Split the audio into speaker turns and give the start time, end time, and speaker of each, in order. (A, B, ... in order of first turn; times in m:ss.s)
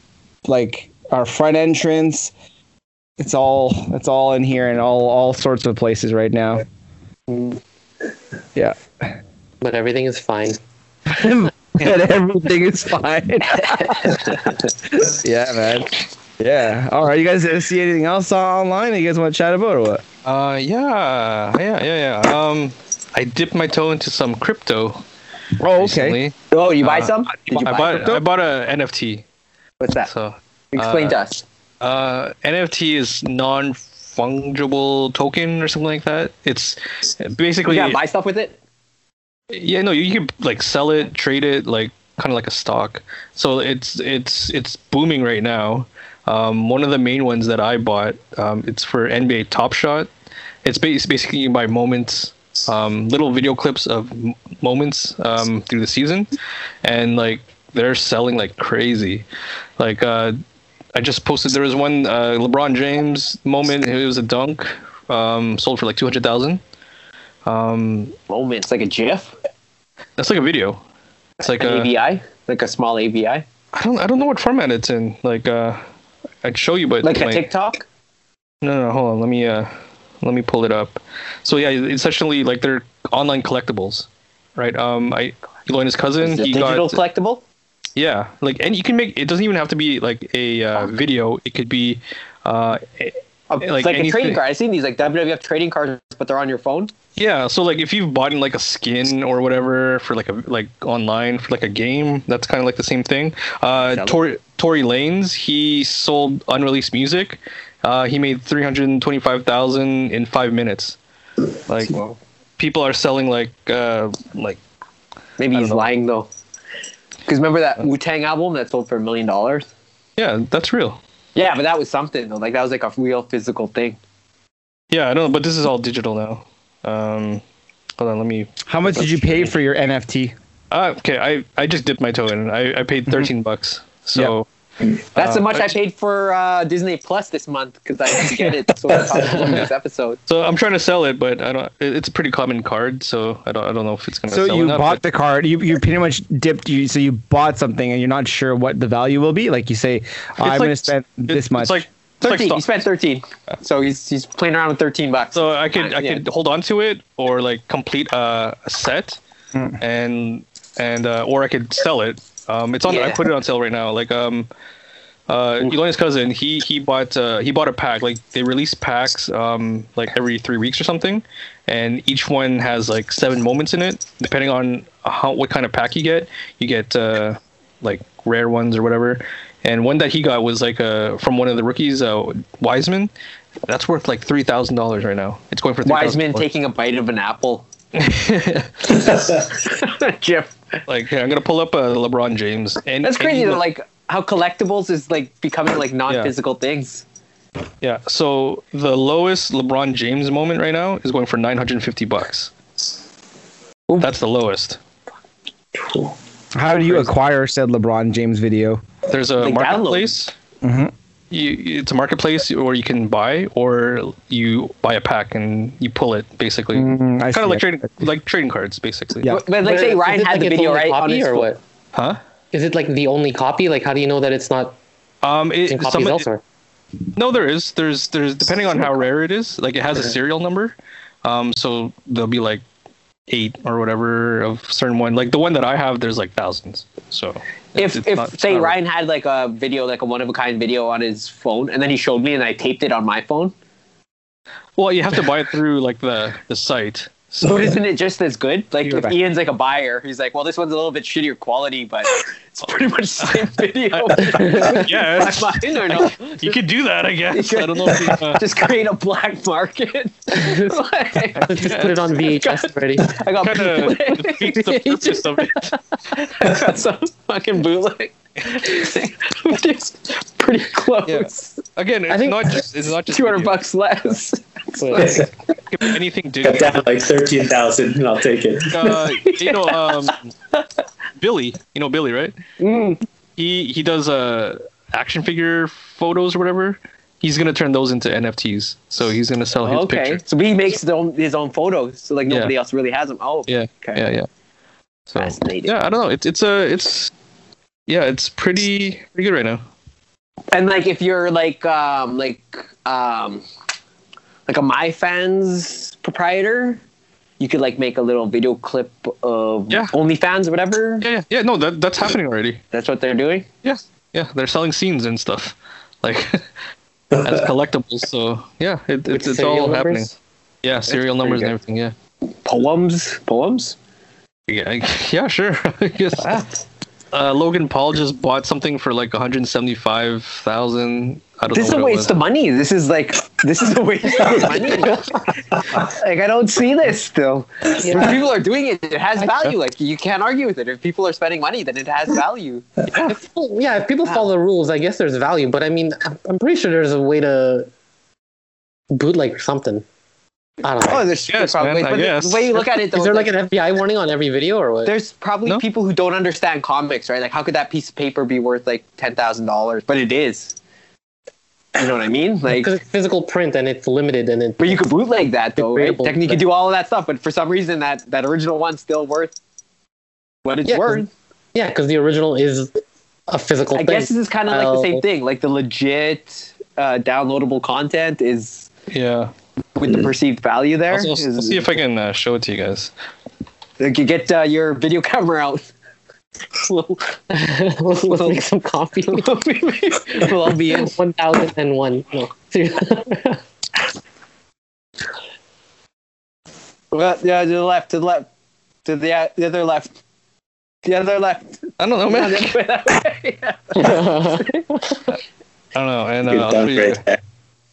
0:00.4-0:02.3 A
0:03.2-0:06.6 A
0:08.5-0:09.2 A
0:09.6-0:10.6 B
0:11.1-0:20.0 A
0:14.0-0:14.2 C
0:20.2-0:25.0 D
0:25.6-0:26.2 A
0:25.8-0:29.2 D
0:26.5-0:28.2 C
0:27.5-0:28.2 A
0:29.8-0:30.1 C
0:30.0-0:31.2 D
0:30.7-0:31.4 C
0:31.8-0:38.0 D
0:37.6-0:38.6 C
0:39.5-0:50.1 D
0:50.6-0:56.3 D
0:56.8-0:59.2 D
0:59.8-1:00.4 D
1:00.9-1:06.6 D
1:07.4-1:08.1 D
1:08.3-1:09.3 C
1:10.2-1:10.8 D
1:11.4-1:11.9 D
1:11.6-1:13.4 C
1:13.7-1:15.8 D
1:16.4-1:17.5 D
1:17.0-1:17.8 C
1:18.6-1:27.0 D
1:26.2-1:27.4 C
1:28.0-1:34.4 D
1:33.5-1:36.9 C
1:37.2-1:51.0 D
1:43.9-1:44.2 C
1:51.7-1:52.0 D
1:51.9-1:52.2 C
1:52.6-1:54.6 D
1:55.4-1:56.3 C
1:55.5-1:55.9 D
1:57.2-1:59.7 C
2:00.2-2:01.0 D
2:01.3-2:04.0 C
2:04.9-2:07.4 D
2:08.0-2:09.2 D
2:08.6-2:10.3 A
2:10.7-2:14.4 D
2:15.1-2:15.7 D
2:15.1-2:20.2 C
2:18.9-2:19.5 E
2:20.3-2:25.0 D
2:24.3-2:31.8 A
2:30.4-2:32.6 D
2:32.2-2:36.2 C
2:35.3-2:39.2 D
2:39.8-2:44.5 D
2:42.8-2:43.2 C
2:45.3-3:03.1 D
3:03.7-3:06.5 D
3:05.8-3:07.6 C
3:07.9-3:09.0 D
3:08.9-3:10.5 C
3:10.9-3:13.6 D
3:13.0-3:17.0 C
3:16.1-3:16.3 D
3:17.8-3:22.5 D
3:24.0-3:24.8 D
3:25.7-3:26.1 E
3:26.5-3:28.8 A
3:29.1-3:30.3 D
3:29.4-3:30.1 C
3:30.6-3:30.9 A
3:31.3-3:39.3 D
3:36.7-3:37.6 A
3:39.2-3:41.5 C
3:39.6-3:41.6 B
3:41.9-3:42.2 D
3:42.5-3:44.8 B
3:45.2-3:46.2 D
3:45.7-3:46.4 B
3:47.1-3:52.6 D
3:53.3-3:58.8 D
3:57.8-4:03.5 C
4:04.8-4:07.8 D
4:07.4-4:16.6 C
4:08.8-4:09.2 A
4:13.2-4:18.5 D
4:14.4-4:14.8 B
4:17.3-4:21.6 C
4:20.3-4:20.7 B
4:21.4-4:23.2 B
4:21.4-4:22.0 D
4:22.3-4:25.2 C
4:23.4-4:25.7 D
4:26.1-4:31.6 C
4:31.0-4:33.6 D
4:32.1-4:32.6 B
4:33.1-4:35.2 C
4:34.8-4:35.2 B
4:35.0-4:35.3 E
4:35.7-4:36.8 D
4:36.4-4:39.0 E
4:38.7-4:40.3 D
4:39.1-4:39.8 C
4:41.2-4:42.3 D
4:42.6-4:43.0 C
4:43.4-4:50.2 D
4:49.6-4:54.0 C
4:52.3-4:52.5 D
4:53.5-4:54.3 D
4:55.1-4:57.1 D
4:55.2-4:55.7 C
4:57.9-4:59.6 D
5:00.5-5:03.4 C
5:04.5-5:06.8 C
5:07.4-5:11.1 C
5:11.0-5:12.6 D
5:12.7-5:13.5 C
5:13.6-5:16.4 D
5:17.1-5:20.1 D
5:19.1-5:20.1 B
5:20.6-5:21.9 D
5:20.9-5:21.5 C
5:22.4-5:23.8 C
5:24.5-5:26.4 D
5:27.1-5:32.1 D
5:31.5-5:43.1 C
5:37.8-5:38.2 B
5:43.0-5:47.7 B
5:48.9-5:49.8 B
5:50.6-5:51.1 B
5:50.8-5:53.3 C
5:51.3-5:52.6 D
5:52.9-5:54.9 B
5:54.8-6:00.5 C
6:01.8-6:02.8 C
6:02.5-6:04.8 B
6:04.6-6:09.4 C
6:05.6-6:06.4 B
6:10.4-6:11.1 C
6:10.7-6:12.7 B
6:13.3-6:15.0 B
6:13.7-6:18.7 C
6:18.9-6:19.3 D
6:19.8-6:21.6 C
6:20.9-6:22.9 D
6:23.8-6:25.7 C
6:26.5-6:27.2 C
6:27.3-6:29.3 B
6:28.1-6:28.4 C
6:29.1-6:30.9 C
6:30.7-6:33.4 B
6:36.9-6:38.3 C
6:38.8-6:39.9 C
6:40.8-6:44.6 C
6:41.8-6:42.6 D
6:43.8-6:44.5 B
6:45.7-6:47.0 D
6:46.3-6:47.2 E